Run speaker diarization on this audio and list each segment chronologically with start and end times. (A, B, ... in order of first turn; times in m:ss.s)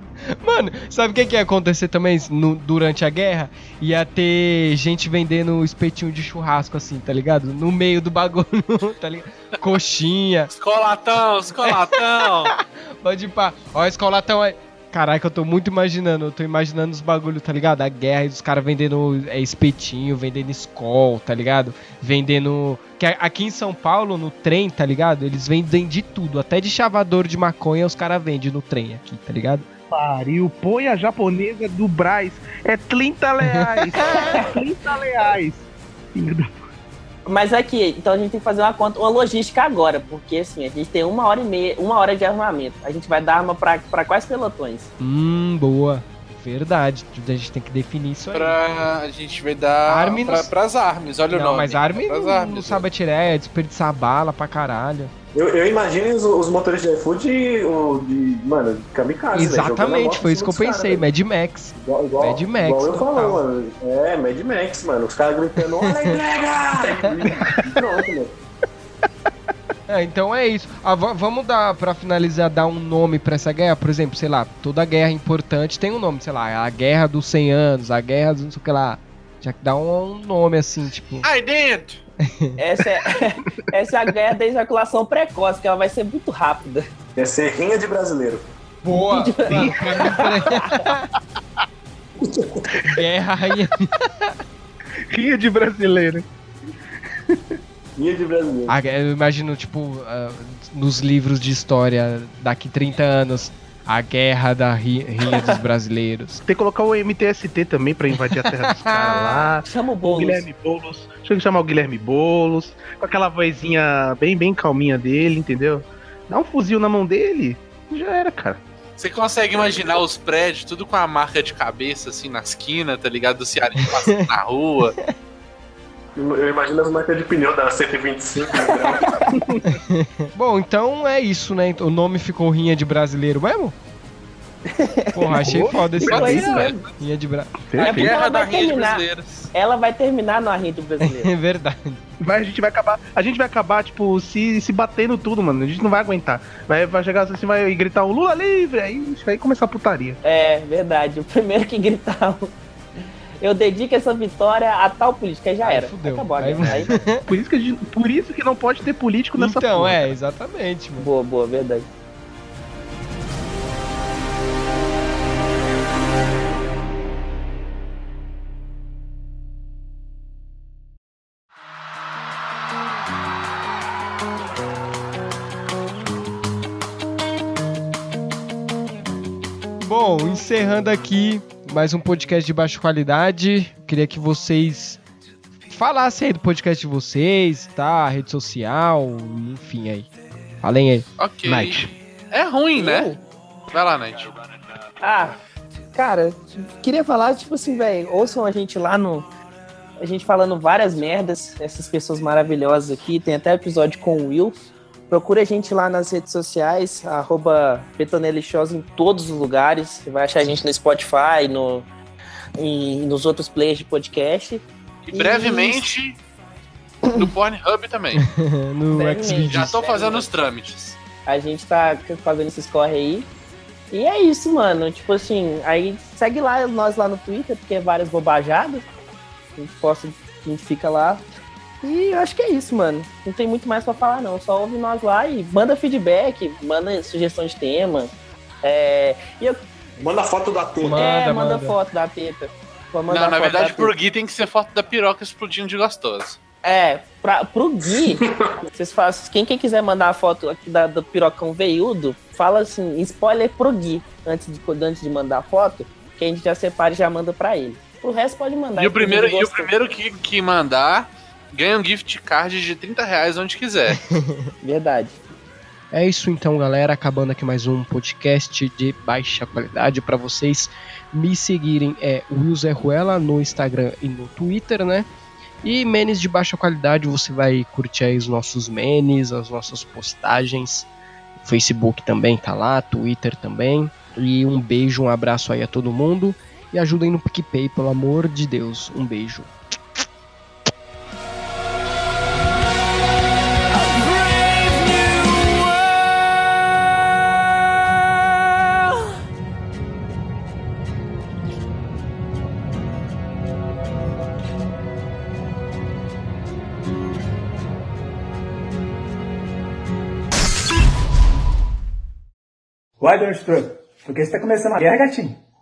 0:00.4-0:10.5 A
0:10.6-0:12.6 B
0:11.6-0:11.9 A
0:12.6-0:29.7 A
0:29.9-0:36.6 C
0:33.5-0:34.3 A
0:34.1-0:34.7 D
0:37.3-0:44.9 D
0:45.0-0:48.6 A
0:48.3-0:52.9 B
0:49.9-0:50.5 A
0:51.3-0:55.1 A
0:55.3-1:01.1 E
0:59.3-1:03.4 A
1:01.8-1:08.4 E
1:05.9-1:06.2 A
1:07.0-1:07.6 A
1:09.9-1:21.3 A
1:21.2-1:22.0 B
1:22.2-1:22.6 A
1:22.6-1:26.9 D
1:27.2-1:28.5 E
1:28.8-1:31.1 A
1:29.1-1:30.8 D
1:29.5-1:29.8 C
1:32.2-1:32.6 E
1:32.8-1:34.4 A
1:35.1-1:36.2 C
1:37.1-1:37.6 C
1:38.0-1:38.8 E
1:38.7-1:46.4 A
1:45.3-1:45.6 D
1:46.5-1:58.6 C
1:48.7-1:49.4 A
1:49.6-1:50.5 D
1:59.0-2:05.0 B
2:06.2-2:09.4 E
2:08.6-2:09.2 D
2:09.7-2:13.8 A
2:14.7-2:16.9 D
2:15.1-2:17.5 A
2:15.4-2:16.7 C
2:16.0-2:16.8 B
2:17.7-2:18.1 C
2:17.8-2:19.5 B
2:17.8-2:21.3 D
2:21.0-2:22.0 A
2:22.2-2:30.2 C
2:30.2-2:32.5 D
2:33.4-2:37.0 D
2:35.6-2:37.2 A
2:37.2-2:40.2 C
2:39.4-2:41.1 A
2:41.0-2:41.9 D
2:59.8-3:05.0 A
3:05.7-3:10.1 A
3:10.6-3:11.1 A
3:11.2-3:13.2 B
3:11.4-3:11.9 C
3:12.8-3:13.2 D
3:13.7-3:14.3 B
3:15.0-3:15.4 D
3:15.9-3:19.3 D
3:20.0-3:24.6 D
3:25.1-3:31.9 D
3:32.6-3:35.9 D
3:35.1-3:36.2 B
3:37.2-3:38.2 B
3:38.2-3:39.8 A
3:38.9-3:40.5 D
3:39.5-3:41.0 B
3:41.3-3:43.3 D
3:43.9-3:48.8 D
3:49.6-3:51.2 D
3:51.8-3:58.1 D
3:58.6-3:59.6 D
4:00.0-4:01.0 E
4:00.8-4:01.8 A
4:01.0-4:03.9 D
4:03.1-4:06.4 B
4:06.6-4:08.2 D
4:08.0-4:08.5 E
4:08.8-4:19.7 D
4:18.8-4:24.0 B
4:24.1-4:24.5 A
4:24.6-4:25.2 D
4:25.9-4:35.1 A
4:35.6-4:40.9 A
4:41.4-4:49.5 A
5:13.0-5:15.4 F